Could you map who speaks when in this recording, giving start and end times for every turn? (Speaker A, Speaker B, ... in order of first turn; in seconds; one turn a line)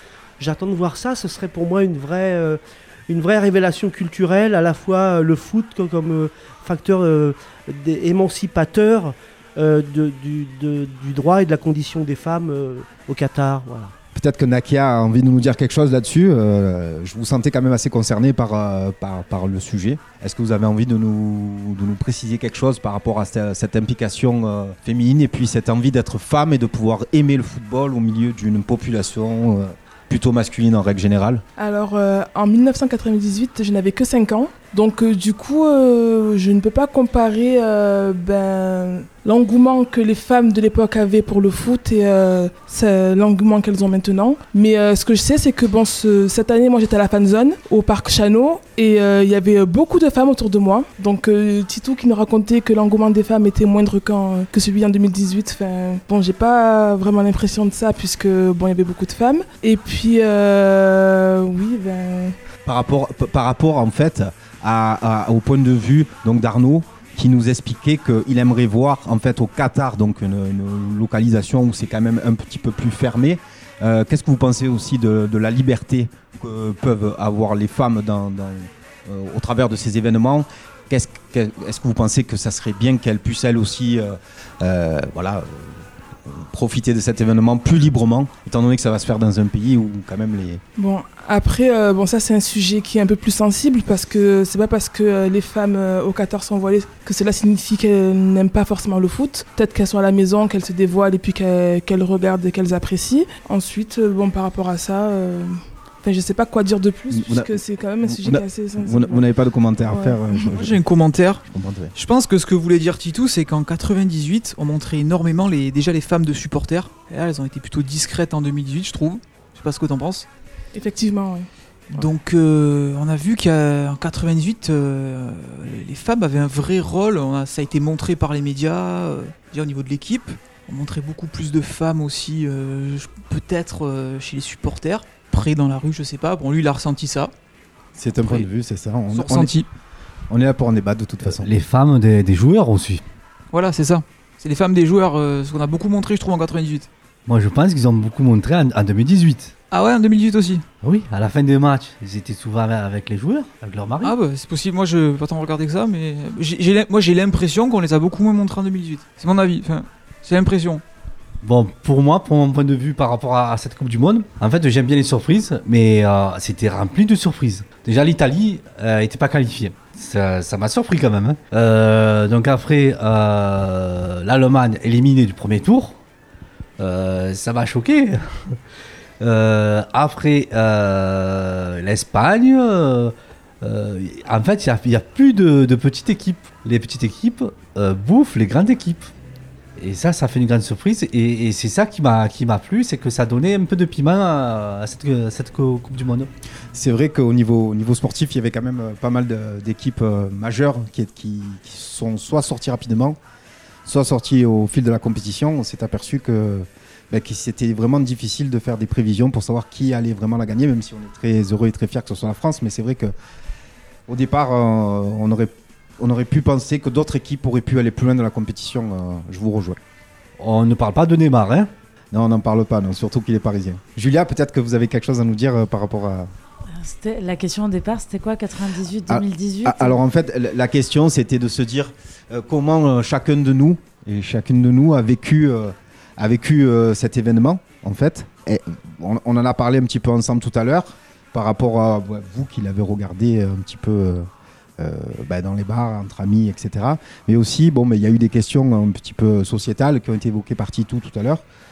Speaker A: 0.4-13.9
Speaker B: 14.1-31.4
Speaker C: 31.6-62.4
Speaker B: 62.6-90.6
Speaker C: 90.8-109.3
Speaker B: 107.1-110.9
Speaker C: 109.8-110.4
Speaker D: 110.5-111.4
Speaker B: 111.4-111.9
Speaker D: 111.9-120.3
Speaker C: 120.7-121.5
Speaker D: 121.9-137.3
Speaker B: 137.9-139.6
Speaker D: 138.2-138.5
Speaker D: 139.1-139.7
Speaker B: 140.3-141.5
Speaker E: 141.2-143.0
Speaker D: 143.5-146.9
Speaker E: 147.3-149.5
Speaker D: 149.7-150.6
Speaker E: 150.8-154.1
Speaker D: 154.0-160.8
Speaker E: 161.4-176.0
Speaker E: 176.8-178.6
Speaker E: 179.2-189.1
Speaker E: 189.8-196.3
Speaker B: 196.7-203.2
Speaker B: 203.9-213.1
Speaker B: 214.1-219.8
Speaker E: 220.4-221.7
Speaker B: 222.1-226.3
Speaker F: 226.8-230.0
Speaker B: 229.1-251.4